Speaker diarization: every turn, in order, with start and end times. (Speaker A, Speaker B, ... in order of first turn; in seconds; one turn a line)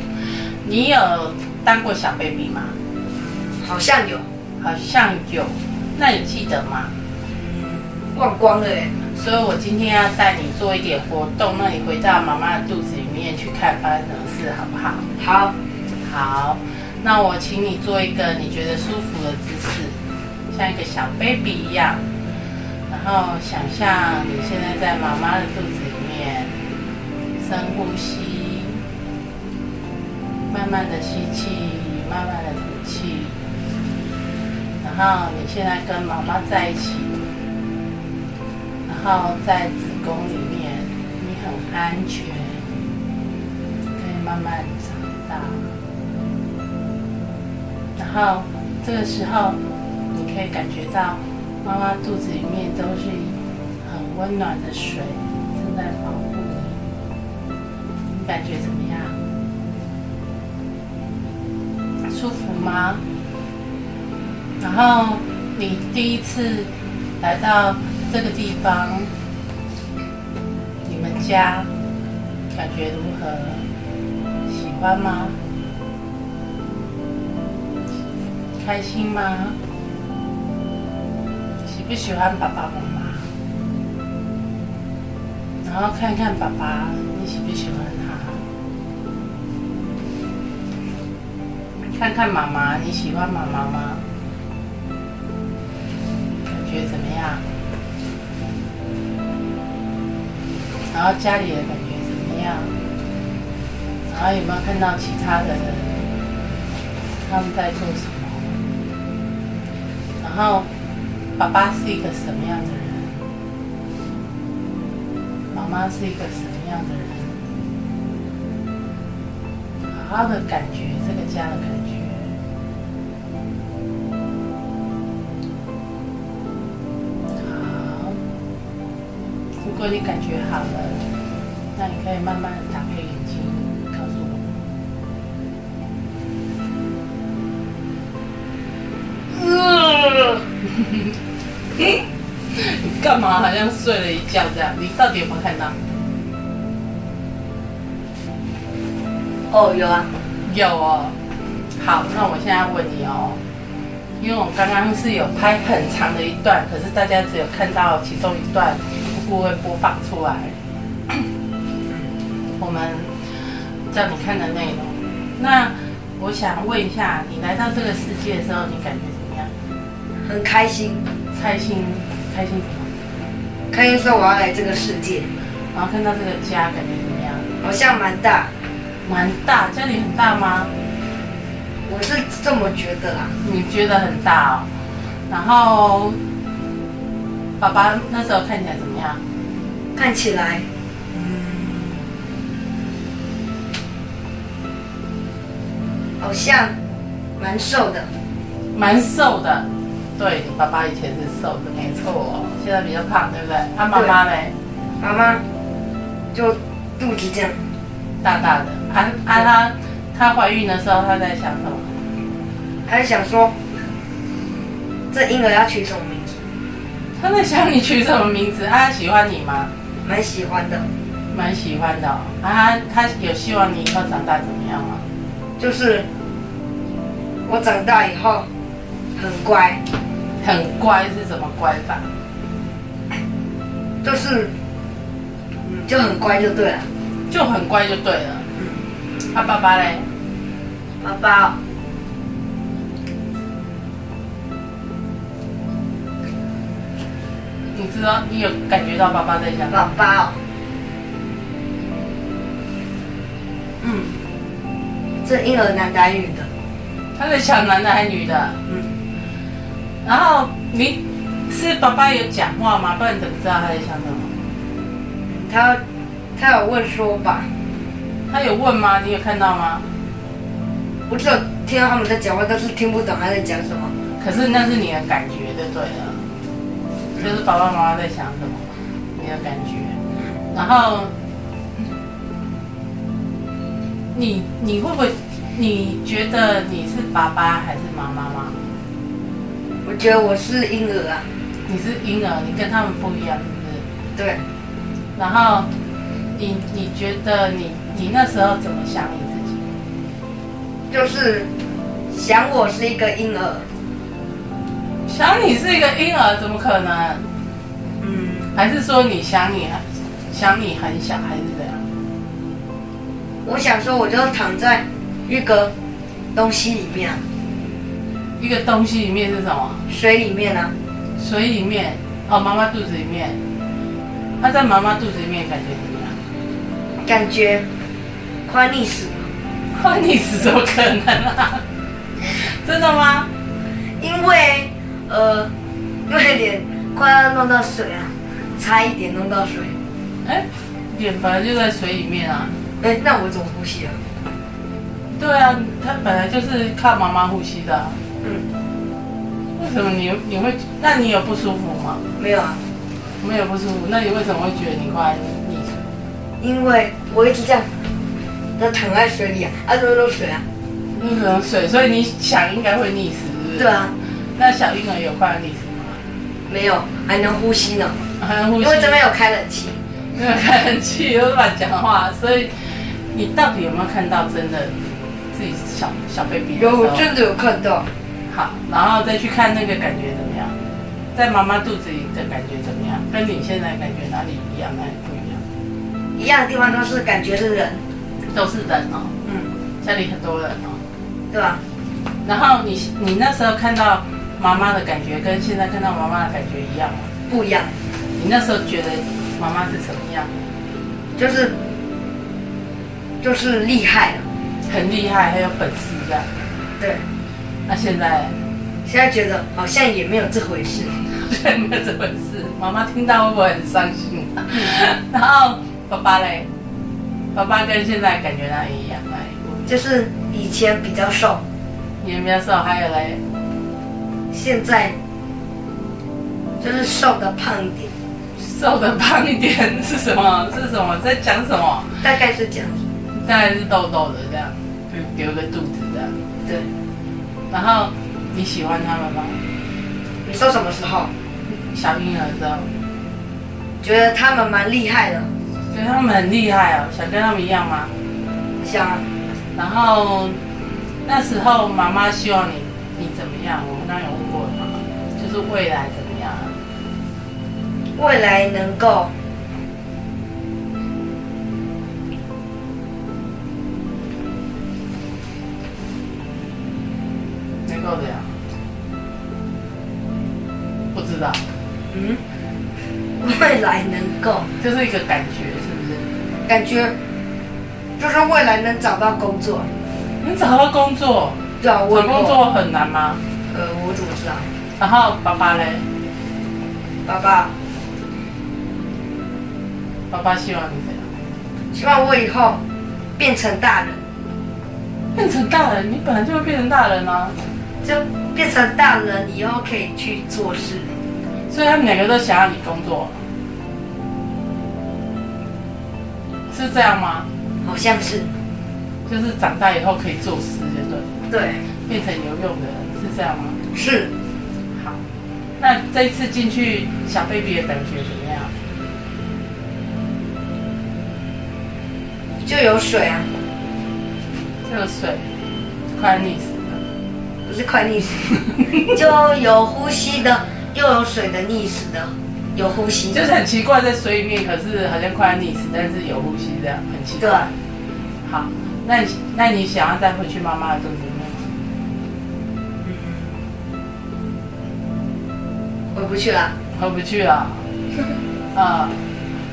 Speaker A: 0.6-2.7
Speaker B: 3.5-4.2
Speaker A: 4.6-6.9
Speaker B: 7.3-8.9
Speaker A: 9.1-15.1
Speaker B: 15.2-15.5
Speaker A: 16.0-20.0
Speaker A: 20.5-22.0
Speaker A: 22.9-26.5
Speaker A: 27.4-28.8
Speaker A: 30.5-33.4
Speaker A: 34.8-37.1
Speaker A: 38.9-42.7
Speaker A: 44.0-45.7
Speaker A: 48.0-49.6
Speaker A: 50.1-56.8
Speaker A: 58.1-59.2
Speaker A: 62.1-63.0
Speaker A: 64.6-66.7
Speaker A: 67.2-69.1
Speaker A: 70.8-71.7
Speaker A: 72.5-73.7
Speaker A: 74.5-75.4
Speaker A: 78.6-79.6
Speaker A: 81.6-83.3
Speaker A: 85.6-88.4
Speaker A: 91.9-94.0
Speaker A: 96.5-97.4
Speaker A: 100.9-102.7
Speaker A: 104.1-106.0
Speaker A: 107.2-108.6
Speaker A: 110.2-110.7
Speaker A: 111.4-113.3
Speaker A: 115.5-117.4
Speaker A: 119.9-122.3
Speaker A: 127.3-128.2
Speaker A: 129.6-131.0
Speaker A: 131.8-134.5
Speaker B: 139.3-140.4
Speaker A: 140.8-141.1
Speaker A: 142.5-145.8
Speaker B: 149.5-150.1
Speaker A: 150.4-151.2
Speaker A: 151.8-153.4
Speaker A: 154.2-160.6
Speaker A: 162.6-169.5
Speaker B: 170.2-171.0
Speaker A: 171.3-172.9
Speaker B: 173.7-175.3
Speaker A: 175.7-177.5
Speaker B: 177.6-178.5
Speaker A: 179.0-180.7
Speaker B: 181.9-183.3
Speaker A: 183.4-184.7
Speaker A: 185.3-186.2
Speaker A: 187.6-189.2
Speaker B: 189.9-192.0
Speaker B: 196.2-196.7
Speaker B: 197.4-198.1
Speaker A: 198.7-204.5
Speaker B: 205.0-205.4
Speaker B: 206.3-207.6
Speaker A: 208.2-211.9
Speaker B: 212.8-213.5
Speaker B: 215.1-216.4
Speaker A: 217.2-219.7
Speaker B: 220.0-220.9
Speaker A: 221.3-225.1
Speaker B: 225.6-226.1
Speaker B: 227.4-228.4
Speaker B: 229.2-229.8
Speaker A: 230.4-232.1
Speaker B: 234.0-234.5
Speaker B: 235.7-236.9
Speaker A: 237.3-238.4
Speaker A: 239.3-240.1
Speaker B: 241.0-241.6
Speaker A: 247.7-249.9
Speaker B: 249.7-250.4
Speaker B: 253.8-254.1
Speaker B: 255.2-256.5
Speaker A: 257.1-258.6
Speaker A: 260.0-264.3
Speaker B: 265.3-265.8
Speaker B: 266.4-267.5
Speaker A: 268.3-269.8
Speaker B: 271.1-273.9
Speaker A: 274.2-276.2
Speaker A: 277.2-280.0
Speaker A: 280.5-281.1
Speaker A: 284.1-288.6
Speaker B: 289.8-291.2
Speaker A: 291.7-293.8
Speaker B: 294.1-294.4
Speaker A: 295.1-295.7
Speaker A: 296.3-299.6
Speaker B: 300.9-301.5
Speaker B: 302.1-303.7
Speaker A: 305.1-307.3
Speaker B: 308.0-308.5
Speaker A: 308.5-311.9
Speaker B: 313.4-315.7
Speaker B: 316.3-317.2
Speaker A: 318.4-319.8
Speaker B: 319.9-320.7
Speaker A: 321.2-323.4
Speaker A: 324.4-326.2
Speaker B: 327.0-327.6
Speaker B: 328.4-329.3
Speaker A: 329.7-331.6
Speaker A: 332.2-333.3
Speaker B: 334.0-335.5
Speaker B: 336.1-339.8
Speaker A: 340.2-342.5
Speaker B: 342.8-344.0
Speaker A: 345.1-348.0
Speaker A: 349.6-352.0
Speaker B: 352.2-352.6
Speaker A: 353.2-355.8
Speaker B: 356.4-357.7
Speaker B: 358.6-360.4
Speaker A: 360.9-363.8
Speaker B: 363.6-363.9
Speaker A: 364.4-366.0
Speaker B: 366.5-368.0
Speaker A: 368.2-369.0
Speaker B: 368.6-369.8
Speaker A: 370.1-374.7
Speaker A: 375.3-377.1
Speaker B: 376.6-377.9
Speaker A: 378.3-380.5
Speaker A: 381.1-385.4
Speaker B: 386.1-387.8
Speaker A: 388.3-389.1
Speaker B: 389.2-389.5
Speaker A: 389.8-390.8
Speaker B: 391.3-391.6
Speaker A: 392.2-397.1
Speaker B: 397.3-397.7
Speaker A: 398.1-400.3
Speaker B: 401.1-401.5
Speaker B: 403.2-404.2
Speaker A: 404.6-406.3
Speaker B: 406.8-407.0
Speaker A: 407.7-408.4
Speaker B: 408.8-410.9
Speaker A: 410.9-416.5
Speaker A: 417.3-419.8
Speaker B: 419.7-421.4
Speaker A: 422.0-423.2
Speaker B: 424.3-424.9
Speaker B: 426.6-427.9
Speaker A: 428.4-432.1
Speaker B: 432.0-432.8
Speaker A: 433.1-436.1
Speaker A: 437.5-439.4
Speaker B: 440.2-441.1
Speaker A: 441.5-442.7
Speaker B: 443.8-445.3
Speaker A: 445.7-447.9
Speaker B: 448.6-449.0
Speaker A: 449.5-450.4
Speaker A: 451.0-456.5
Speaker B: 457.9-459.1
Speaker A: 467.6-468.4
Speaker A: 470.9-471.4
Speaker B: 471.9-472.2
Speaker B: 473.2-474.5
Speaker A: 474.6-476.1
Speaker B: 476.5-476.9
Speaker B: 478.0-479.7
Speaker A: 480.2-483.2
Speaker B: 481.6-482.4
Speaker B: 483.5-484.5
Speaker A: 484.8-485.8
Speaker B: 487.1-487.5
Speaker A: 490.1-491.1
Speaker B: 491.7-492.6
Speaker B: 493.2-494.0
Speaker A: 495.1-497.4
Speaker B: 497.8-500.9
Speaker A: 501.5-503.2
Speaker A: 506.5-507.3
Speaker B: 507.6-508.3
Speaker A: 509.1-511.1
Speaker B: 511.3-511.6
Speaker A: 511.9-513.6
Speaker B: 513.7-514.1
Speaker A: 514.7-515.0
Speaker A: 515.6-518.5
Speaker B: 522.4-523.3
Speaker A: 524.6-525.2
Speaker A: 525.9-526.8
Speaker B: 527.5-533.2
Speaker A: 533.1-537.5
Speaker B: 537.2-537.5
Speaker A: 538.2-541.5
Speaker B: 542.8-543.4
Speaker B: 545.9-546.5
Speaker A: 546.7-547.7
Speaker A: 548.5-549.0